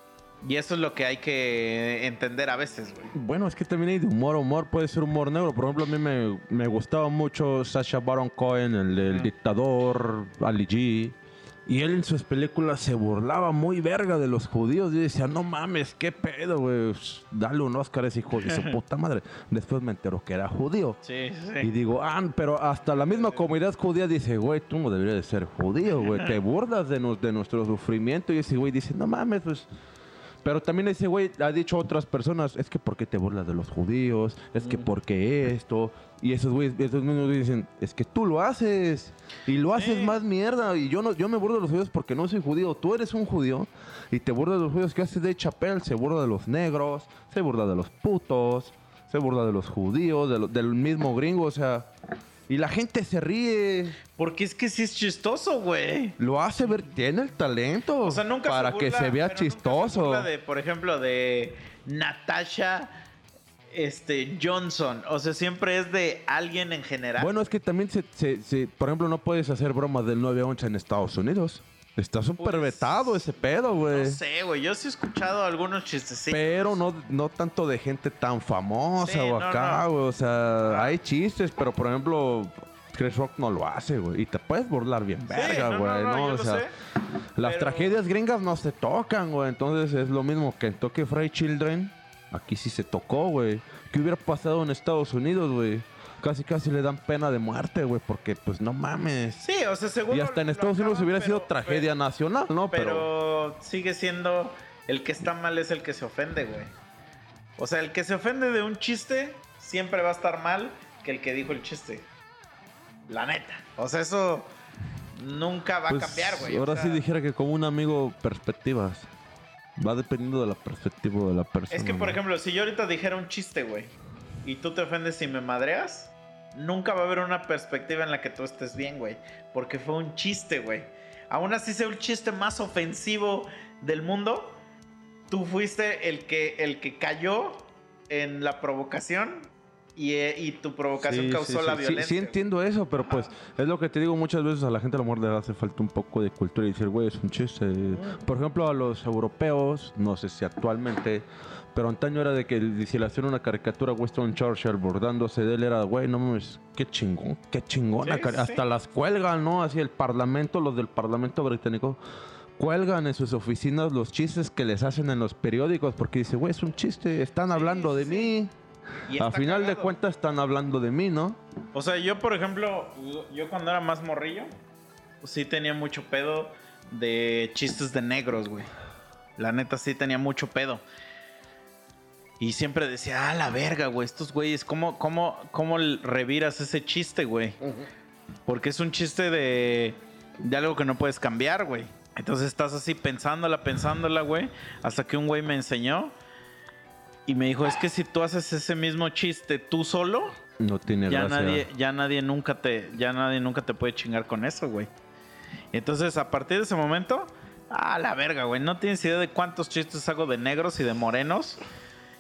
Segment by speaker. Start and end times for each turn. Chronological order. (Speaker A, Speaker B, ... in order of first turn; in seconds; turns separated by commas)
Speaker A: 0.4-3.1, Speaker B: 3.1-21.0, Speaker A: 21.0-21.7, Speaker B: 21.6-29.7, Speaker A: 22.9-23.5, Speaker B: 30.4-51.9, Speaker A: 34.6-34.9, Speaker A: 39.7-40.2, Speaker B: 52.5-54.0, Speaker A: 54.2-56.2, Speaker B: 56.2-60.3, Speaker A: 58.0-63.0, Speaker A: 63.7-67.5, Speaker B: 67.2-74.2, Speaker A: 72.4-73.2, Speaker A: 73.9-76.8, Speaker B: 76.3-86.7, Speaker A: 79.0-79.8, Speaker A: 80.7-80.9, Speaker A: 85.3-86.7, Speaker B: 87.3-99.5, Speaker A: 87.4-88.0, Speaker A: 99.4-101.9, Speaker B: 100.1-103.1, Speaker A: 102.7-106.7, Speaker A: 107.6-112.0, Speaker A: 113.1-114.5, Speaker A: 115.2-117.0, Speaker B: 115.9-119.1, Speaker B: 119.8-122.2, Speaker A: 121.7-123.9, Speaker A: 124.4-134.6, Speaker A: 135.3-142.3, Speaker B: 141.0-162.0, Speaker A: 143.0-143.3, Speaker A: 158.0-158.6, Speaker B: 162.6-168.5, Speaker A: 167.5-168.3, Speaker A: 169.1-169.9, Speaker B: 169.1-171.4, Speaker A: 171.7-174.5, Speaker A: 175.2-178.7, Speaker A: 179.4-180.8, Speaker A: 182.4-187.6, Speaker A: 188.5-196.1, Speaker A: 197.2-200.3, Speaker B: 200.6-201.7, Speaker A: 201.1-204.9, Speaker A: 205.7-211.6